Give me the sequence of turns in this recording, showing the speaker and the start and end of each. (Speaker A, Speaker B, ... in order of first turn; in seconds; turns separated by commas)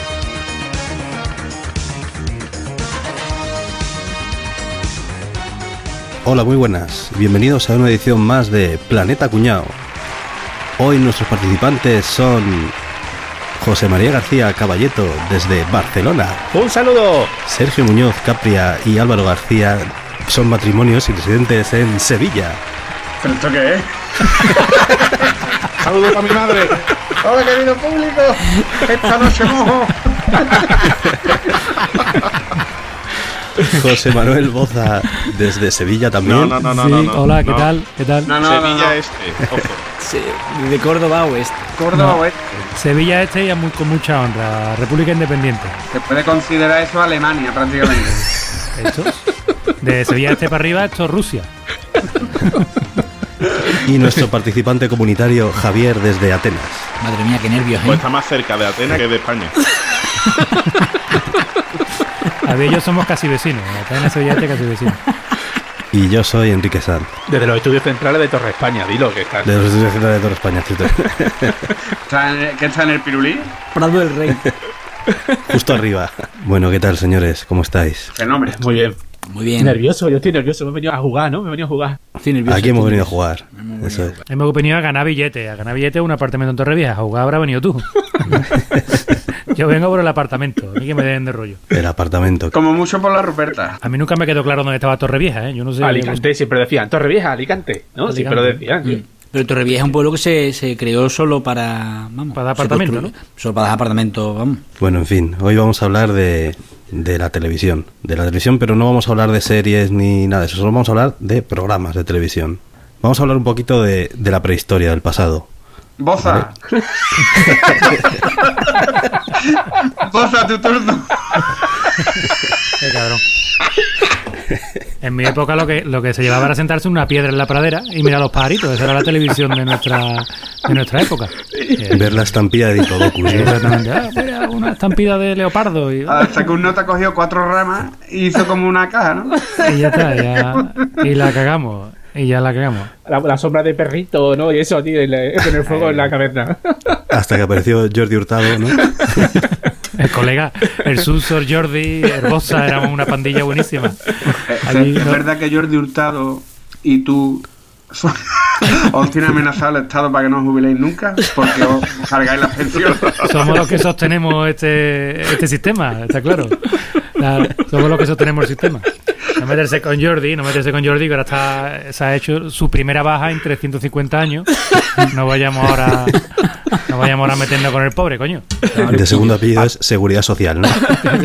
Speaker A: 6.2-9.8, Speaker A: 10.8-12.8, Speaker A: 13.6-16.5, Speaker B: 16.5-17.4, Speaker A: 17.4-22.6, Speaker C: 23.2-32.1, Speaker A: 33.7-36.6, Speaker D: 36.2-37.7, Speaker E: 36.7-38.4, Speaker C: 38.3-39.0, Speaker D: 38.4-39.9, Speaker F: 40.0-41.7, Speaker C: 41.8-42.7, Speaker E: 41.9-42.2, Speaker E: 42.8-45.8, Speaker C: 45.9-48.3, Speaker E: 48.8-49.3, Speaker E: 49.8-51.5, Speaker A: 53.8-56.9, Speaker F: 57.0-58.0, Speaker D: 57.8-59.6, Speaker E: 62.4-65.0, Speaker A: 65.9-67.1, Speaker B: 67.3-69.5, Speaker A: 69.5-71.7, Speaker C: 72.1-73.6, Speaker F: 73.7-74.5, Speaker B: 75.1-75.4, Speaker A: 75.5-78.1, Speaker C: 78.1-78.7, Speaker B: 78.5-79.0, Speaker F: 79.3-79.8, Speaker B: 79.6-82.0, Speaker F: 82.2-84.2, Speaker A: 82.5-84.2, Speaker E: 84.3-91.6, Speaker A: 91.7-92.6, Speaker C: 92.5-93.8, Speaker E: 93.8-96.2, Speaker B: 95.8-99.0, Speaker E: 98.1-98.7, Speaker F: 98.8-104.6, Speaker E: 102.3-103.1, Speaker A: 104.8-115.5, Speaker C: 116.0-121.7, Speaker A: 116.2-116.5, Speaker E: 122.8-123.2, Speaker E: 125.0-132.2, Speaker A: 131.9-133.6, Speaker E: 133.2-136.3, Speaker C: 136.1-139.5, Speaker E: 139.6-142.9, Speaker B: 143.0-147.0, Speaker A: 147.1-149.4, Speaker E: 150.0-155.2, Speaker C: 154.4-163.6, Speaker E: 163.2-179.0, Speaker A: 178.9-181.0